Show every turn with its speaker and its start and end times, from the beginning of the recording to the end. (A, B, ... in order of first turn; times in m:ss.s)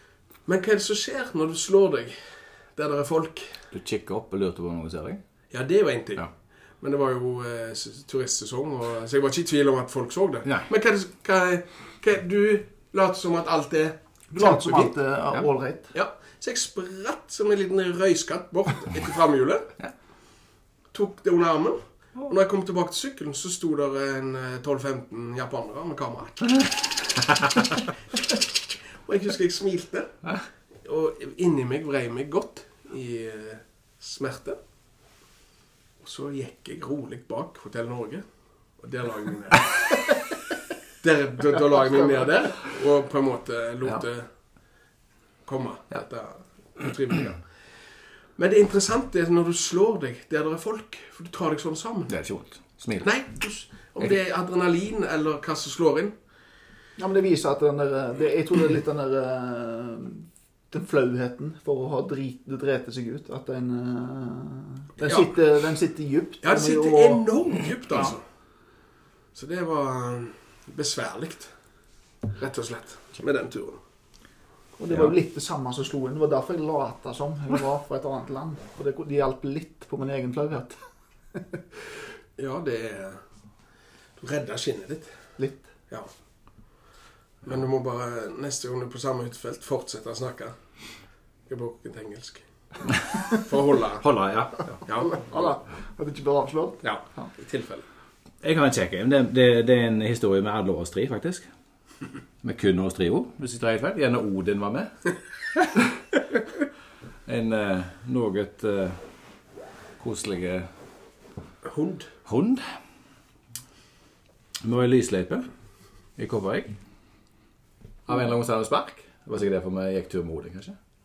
0:00.4-0:03.7 A
0:03.7-0:05.2 B
0:05.5-0:15.0 A
0:14.3-0:15.9 C
0:15.9-0:19.7 A
0:20.9-0:27.3 A
0:29.0-0:34.6 A
0:36.0-0:40.2 A
0:41.0-0:44.3 A
0:45.4-0:56.1 A
0:52.1-0:54.1 B
0:57.0-1:07.2 C
1:05.0-1:05.4 A
1:06.4-1:08.2 A
1:09.3-1:11.6 A
1:12.3-1:13.8 A
1:14.8-1:21.4 C
1:14.9-1:15.1 B
1:22.4-1:23.5 A
1:24.2-1:26.2 A
1:25.4-1:25.7 C
1:27.4-1:32.8 A
1:33.4-1:34.2 A
1:34.0-1:34.8 B
1:34.8-1:37.3 C
1:34.9-1:35.5 A
1:36.8-1:37.8 A
1:38.4-1:41.5 B
1:42.4-1:45.0 B
1:47.2-1:49.4 B
1:50.0-1:50.7 B
1:51.6-1:52.1 A
1:52.3-1:52.7 B
1:54.6-1:55.5 B
1:56.1-1:56.8 B
1:58.1-2:00.8 B